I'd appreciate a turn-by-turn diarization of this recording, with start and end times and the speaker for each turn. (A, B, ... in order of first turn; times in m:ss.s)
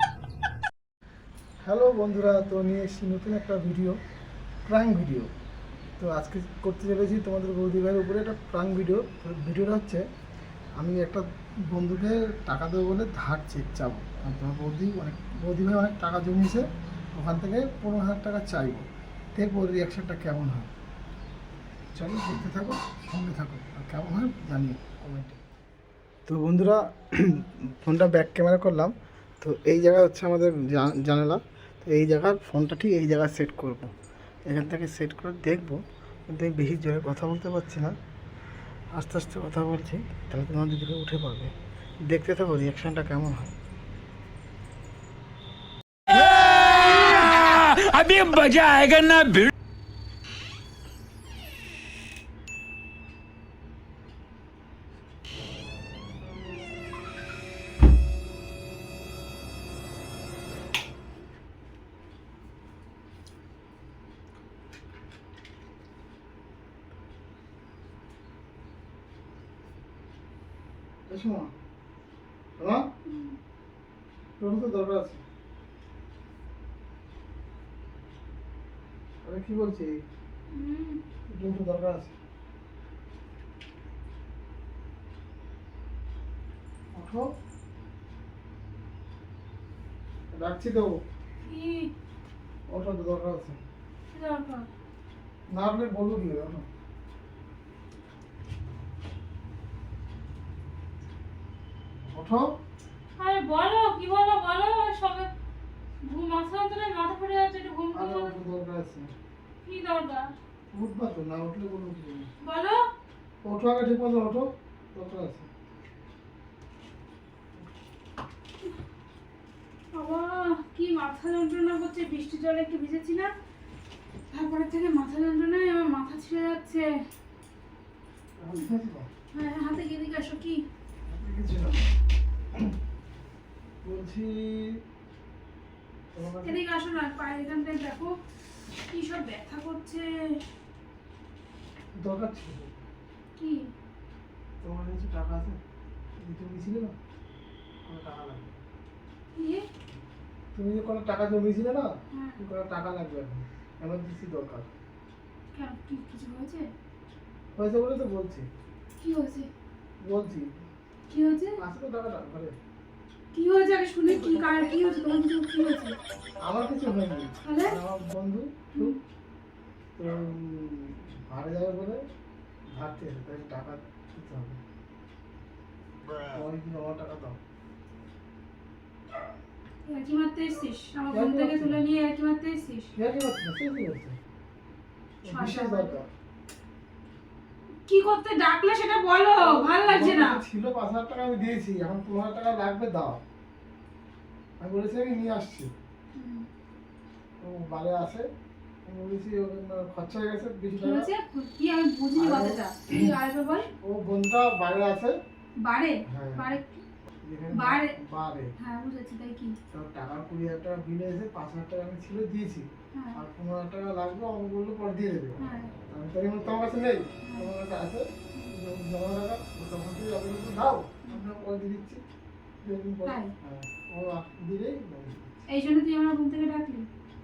0:01.6-0:04.0 A
0:04.6-0:05.3 A
0:06.0-0:10.0 A
0:10.8-0:20.7 A
0:22.0-0:25.4 A
0:26.2-0:33.9 A
0:34.5-0:37.9 A
0:38.9-0:41.5 A
0:42.1-0:43.5 A
0:46.1-0:49.5 B
1:11.1-1:11.5 A
1:12.6-1:12.8 A
1:13.1-1:13.4 C
1:14.4-1:15.2 A
1:19.2-1:20.0 A
1:20.5-1:21.0 C
1:21.3-1:22.1 A
1:26.9-1:27.2 A
1:30.3-1:30.9 A
1:31.4-1:31.9 C
1:32.7-1:33.6 A
1:34.1-1:34.6 C
1:35.5-1:36.6 A
1:42.1-1:42.5 A
1:43.2-1:45.3 C
1:46.0-1:48.4 C
1:47.9-1:49.1 A
1:49.6-1:50.3 C
1:50.7-1:52.3 A
1:52.4-1:52.8 C
1:53.4-1:55.5 A
1:59.9-2:03.3 C
2:04.3-2:07.0 C
2:08.4-2:09.1 A
2:09.3-2:10.6 C
2:11.1-2:11.9 A
2:13.8-2:14.8 A
2:16.1-2:16.6 A
2:16.4-2:18.1 C
2:18.9-2:20.4 C
2:22.0-2:22.7 A
2:23.4-2:23.6 C
2:24.6-2:25.6 A
2:26.2-2:26.9 A
2:27.8-2:28.5 A
2:29.4-2:29.6 C
2:30.5-2:34.7 A
2:32.1-2:32.4 C
2:35.5-2:36.7 C
2:37.6-2:38.5 A
2:39.0-2:39.5 C
2:40.0-2:40.5 A
2:41.1-2:41.6 C
2:41.6-2:42.5 A
2:43.3-2:45.9 C
2:46.4-2:48.9 A
2:47.4-2:47.8 C
2:50.0-2:52.0 A
2:52.8-2:54.6 A
2:56.3-2:57.4 A
2:59.8-3:02.9 C
3:01.1-3:01.8 A
3:03.0-3:04.2 A
3:05.2-3:06.1 A
3:05.2-3:06.0 C
3:07.9-3:10.4 C
3:09.4-3:13.2 A
3:14.6-3:15.7 A
3:16.2-3:16.4 C
3:17.4-3:18.2 A
3:18.8-3:21.1 A
3:20.8-3:23.7 C
3:22.2-3:25.2 A
3:25.6-3:26.8 C
3:26.1-3:26.5 A
3:27.2-3:28.5 A
3:27.5-3:27.9 C
3:28.6-3:29.6 C
3:29.7-3:42.0 A
3:32.9-3:33.2 C
3:35.4-3:35.7 C
3:37.2-3:37.5 C
3:42.6-3:45.3 A
3:43.0-3:43.3 C
3:45.5-3:46.8 C